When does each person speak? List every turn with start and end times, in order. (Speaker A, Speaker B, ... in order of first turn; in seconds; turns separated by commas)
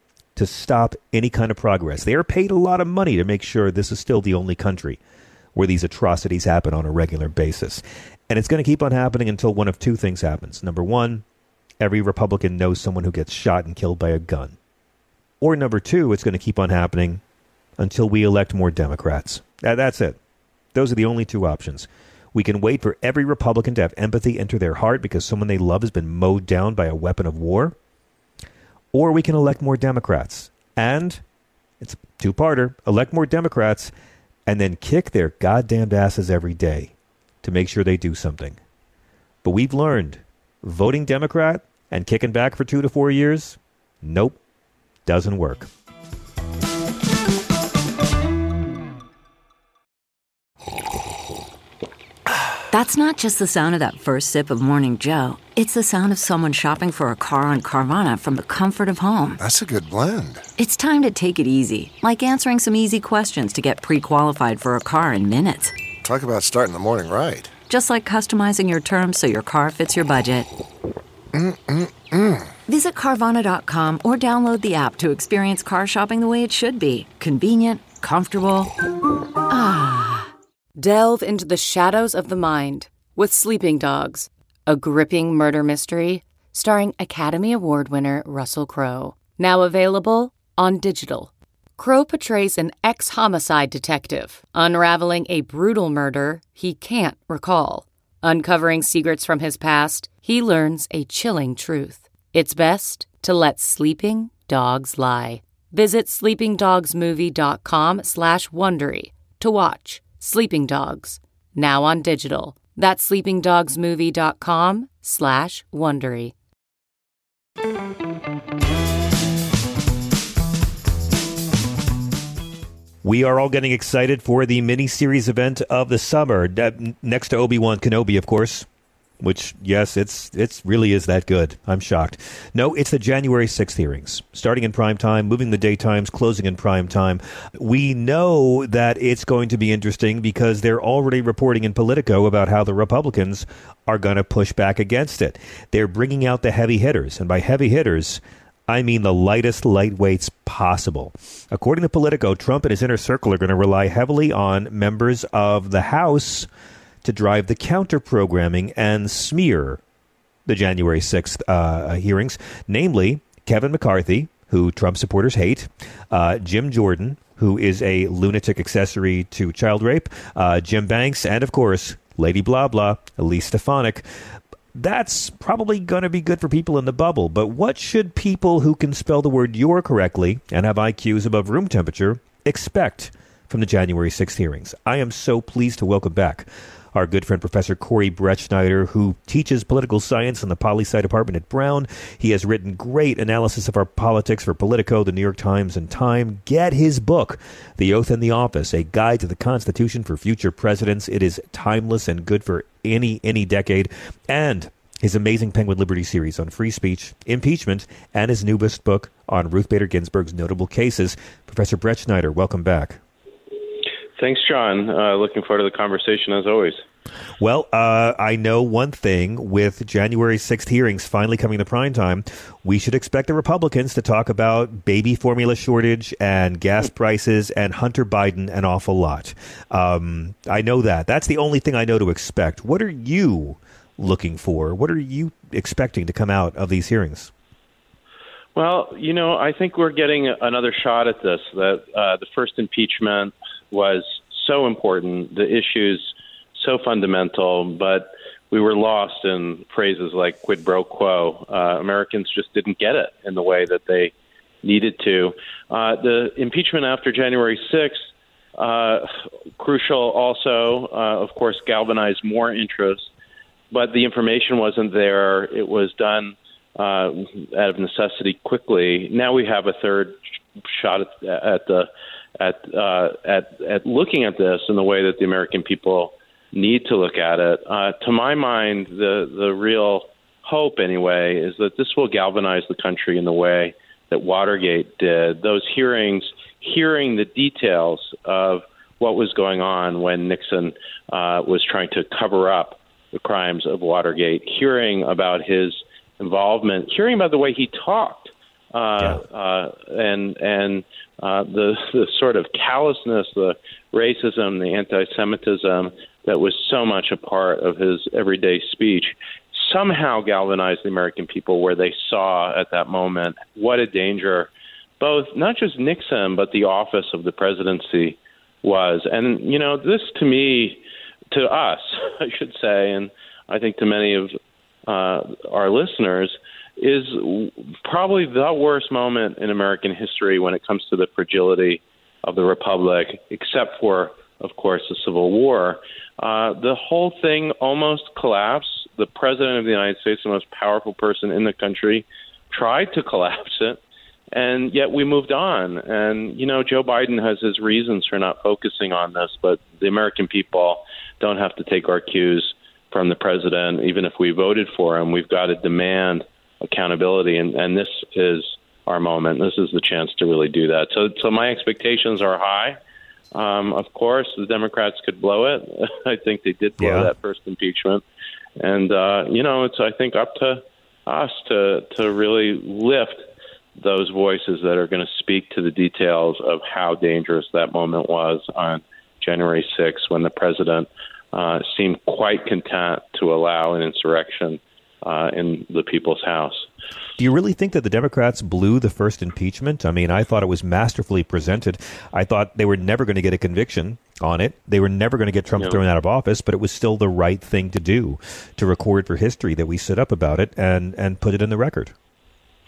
Speaker A: 0.4-5.0, Speaker A: 5.5-11.2, Speaker A: 11.8-14.6, Speaker A: 15.4-17.2, Speaker A: 17.8-20.2, Speaker A: 20.7-27.8, Speaker A: 28.9-31.2, Speaker A: 31.8-33.9, Speaker A: 34.5-38.6, Speaker A: 39.4-44.4, Speaker A: 45.1-45.7, Speaker B: 52.7-59.4, Speaker C: 59.4-60.5, Speaker B: 60.6-65.8, Speaker C: 66.0-67.5, Speaker B: 67.7-70.5, Speaker C: 71.3-72.5, Speaker B: 72.7-78.7, Speaker B: 79.5-80.3, Speaker D: 80.8-116.3, Speaker A: 123.0-128.7, Speaker A: 129.2-156.5, Speaker A: 157.0-159.8, Speaker A: 160.5-174.1, Speaker A: 174.8-213.0, Speaker E: 214.2-216.8, Speaker A: 217.4-237.3, Speaker E: 238.6-263.1, Speaker E: 263.7-271.9, Speaker E: 272.4-324.4, Speaker E: 324.9-343.8, Speaker E: 344.3-362.8, Speaker E: 363.3-368.0, Speaker A: 366.8-367.1, Speaker E: 368.6-386.7, Speaker A: 387.2-401.9